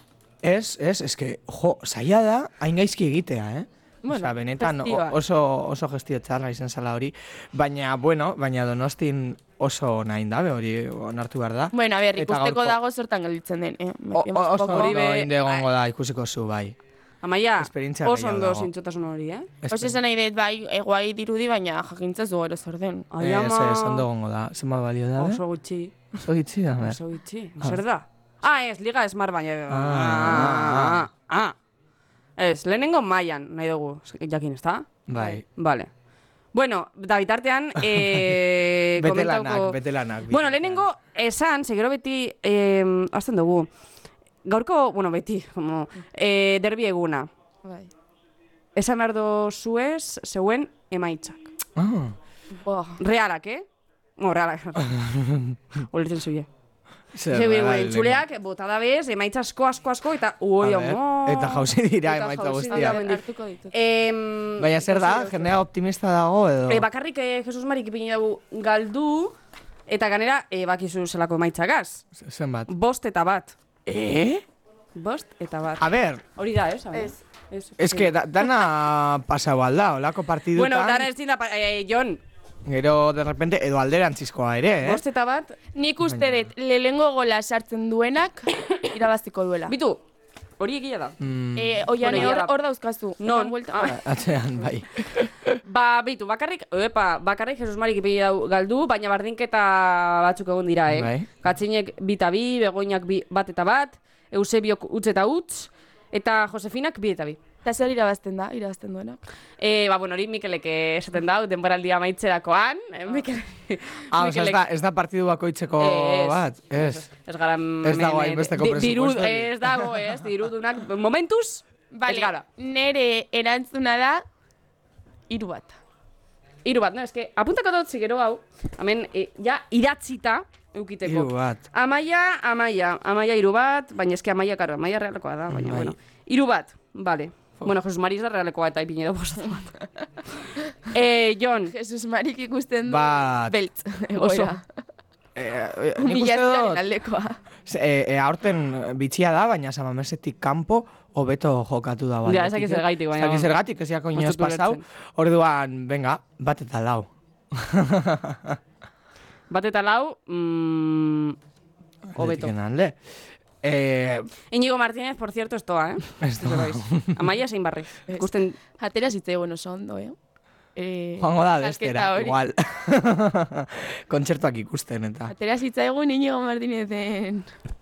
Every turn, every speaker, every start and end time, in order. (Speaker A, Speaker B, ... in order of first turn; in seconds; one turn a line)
Speaker A: 0.4-12.8
Speaker B: 4.0-5.2
Speaker B: 11.7-15.0
Speaker A: 14.1-16.7
Speaker C: 14.7-15.6
Speaker C: 17.2-19.5
Speaker A: 17.6-18.7
Speaker A: 19.6-20.0
Speaker B: 19.7-23.1
Speaker C: 23.1-24.0
Speaker A: 23.2-25.4
Speaker C: 25.2-25.9
Speaker A: 26.1-27.0
Speaker C: 26.8-31.6
Speaker A: 29.7-31.1
Speaker C: 32.4-35.9
Speaker A: 35.1-35.4
Speaker C: 36.5-39.8
Speaker A: 37.8-38.4
Speaker A: 39.0-40.8
Speaker C: 40.3-43.7
Speaker C: 44.4-47.3
Speaker B: 47.6-47.9
Speaker C: 48.7-51.5
Speaker A: 51.8-52.1
Speaker B: 52.5-53.0
Speaker C: 53.0-53.6
Speaker C: 54.2-54.9
Speaker A: 54.8-55.6
Speaker C: 55.9-56.5
Speaker A: 57.1-58.2
Speaker C: 57.3-64.7
Speaker A: 60.6-63.0
Speaker B: 62.7-63.7
Speaker A: 64.6-66.8
Speaker B: 64.9-65.5
Speaker C: 66.7-69.3
Speaker C: 69.9-72.0
Speaker A: 72.1-72.7
Speaker C: 72.7-73.5
Speaker A: 73.8-74.4
Speaker C: 75.0-78.1
Speaker A: 75.8-76.2
Speaker B: 76.9-77.2
Speaker A: 77.8-81.1
Speaker C: 80.5-82.2
Speaker A: 82.7-85.0
Speaker C: 84.8-85.6
Speaker B: 85.7-89.7
Speaker A: 86.1-86.5
Speaker C: 89.7-90.0
Speaker C: 90.6-91.2
Speaker A: 91.2-92.3
Speaker B: 91.5-94.0
Speaker C: 92.0-92.5
Speaker C: 93.2-94.0
Speaker A: 93.8-95.5
Speaker C: 95.6-107.4
Speaker A: 100.9-101.3
Speaker B: 107.6-109.2
Speaker C: 109.6-114.6
Speaker A: 114.1-117.0
Speaker C: 115.8-122.4
Speaker A: 117.8-119.9
Speaker B: 121.9-124.2
Speaker B: 125.3-125.8
Speaker C: 126.6-139.7
Speaker A: 131.0-131.6
Speaker A: 135.5-135.9
Speaker C: 140.9-141.7
Speaker B: 141.7-144.6
Speaker A: 142.8-143.6
Speaker C: 144.2-144.6
Speaker A: 145.3-146.8
Speaker B: 146.0-147.4
Speaker A: 147.7-158.6
Speaker C: 152.2-153.5
Speaker C: 154.1-154.8
Speaker C: 159.5-161.4
Speaker A: 162.1-162.9
Speaker C: 162.2-162.5
Speaker A: 163.6-164.3
Speaker C: 164.5-168.6
Speaker A: 166.2-167.2
Speaker B: 168.1-170.2
Speaker B: 170.8-172.4
Speaker A: 171.2-175.3
Speaker B: 175.3-177.5